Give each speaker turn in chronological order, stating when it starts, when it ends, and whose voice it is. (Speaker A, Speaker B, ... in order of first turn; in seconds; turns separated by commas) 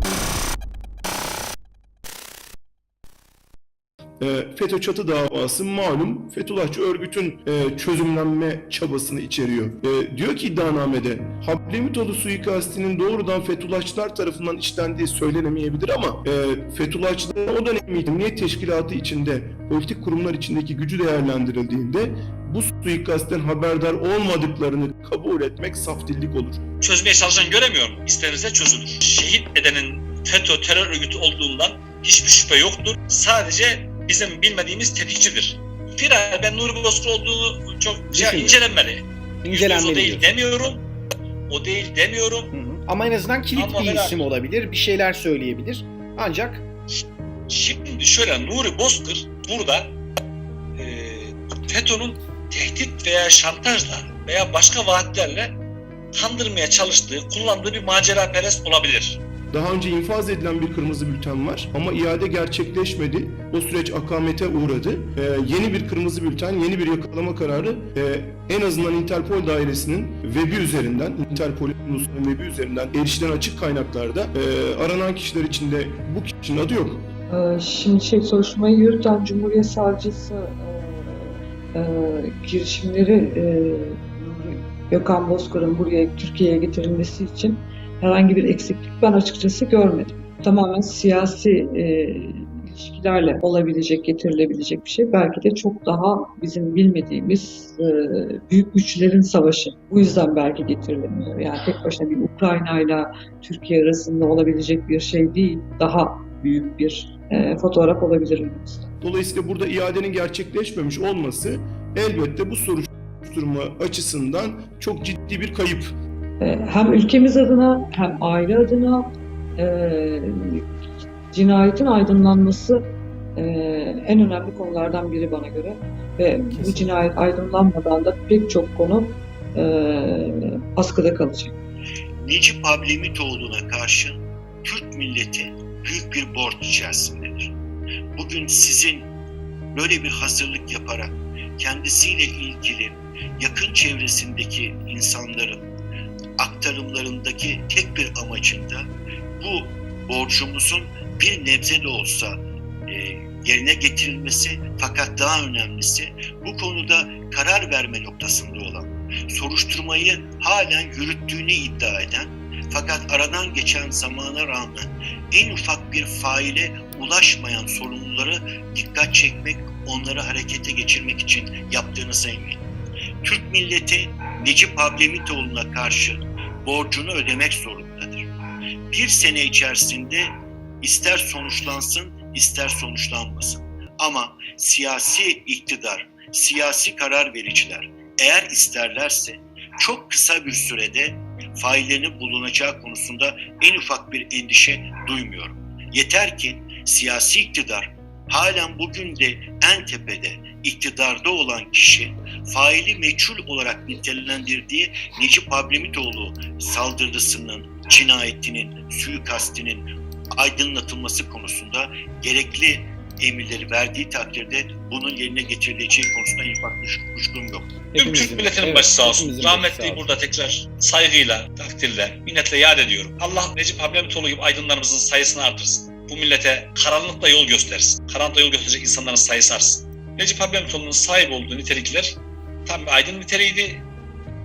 Speaker A: 4.2-26.6, Speaker B: 26.8-40.9, Speaker C: 38.1-38.6, Speaker C: 39.4-40.4, Speaker B: 41.5-42.5, Speaker C: 42.5-46.6, Speaker B: 43.6-44.2, Speaker B: 47.5-50.0, Speaker B: 50.8-55.6, Speaker B: 56.1-59.2, Speaker A: 59.5-77.1, Speaker D: 77.3-108.9, Speaker A: 109.0-115.9, Speaker D: 116.4-120.6, Speaker D: 121.3-122.8, Speaker D: 123.4-131.6, Speaker C: 126.6-126.9, Speaker E: 132.2-137.5, Speaker E: 138.1-139.1, Speaker E: 139.7-145.7, Speaker E: 146.4-172.6, Speaker E: 173.2-178.3, Speaker E: 178.9-180.3, Speaker E: 180.8-217.8, Speaker C: 217.9-220.1, Speaker B: 218.0-233.8